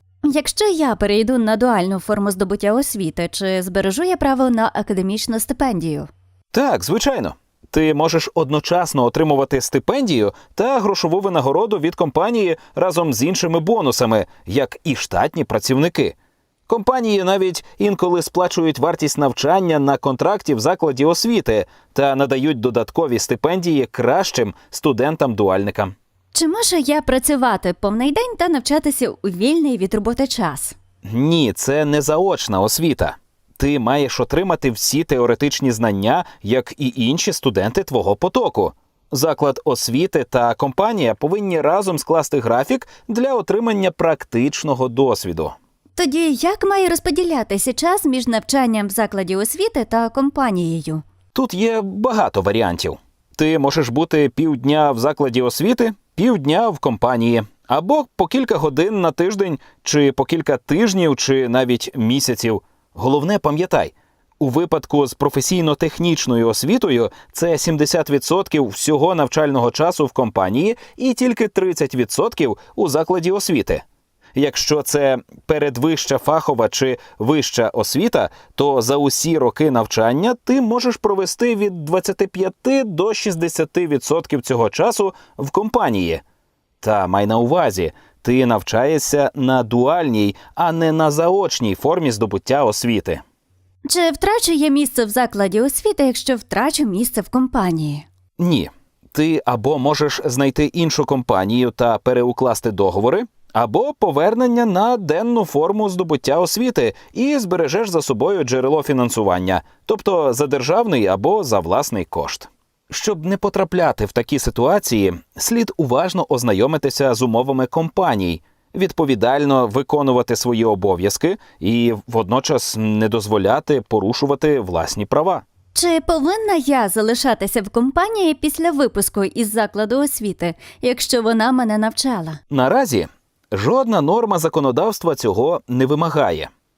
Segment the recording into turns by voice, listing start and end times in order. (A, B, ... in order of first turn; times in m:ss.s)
0:00.2-0:06.1 A
0:06.5-0:16.2 B
0:16.7-0:25.9 B
0:26.3-0:30.8 A
0:31.0-0:45.5 B
0:46.0-0:51.0 A
0:51.3-1:13.8 B
1:14.4-1:26.2 B
1:26.8-1:33.2 B
1:33.9-1:38.1 A
1:38.4-2:05.4 B
2:05.7-2:12.4 A
2:12.5-2:16.5 B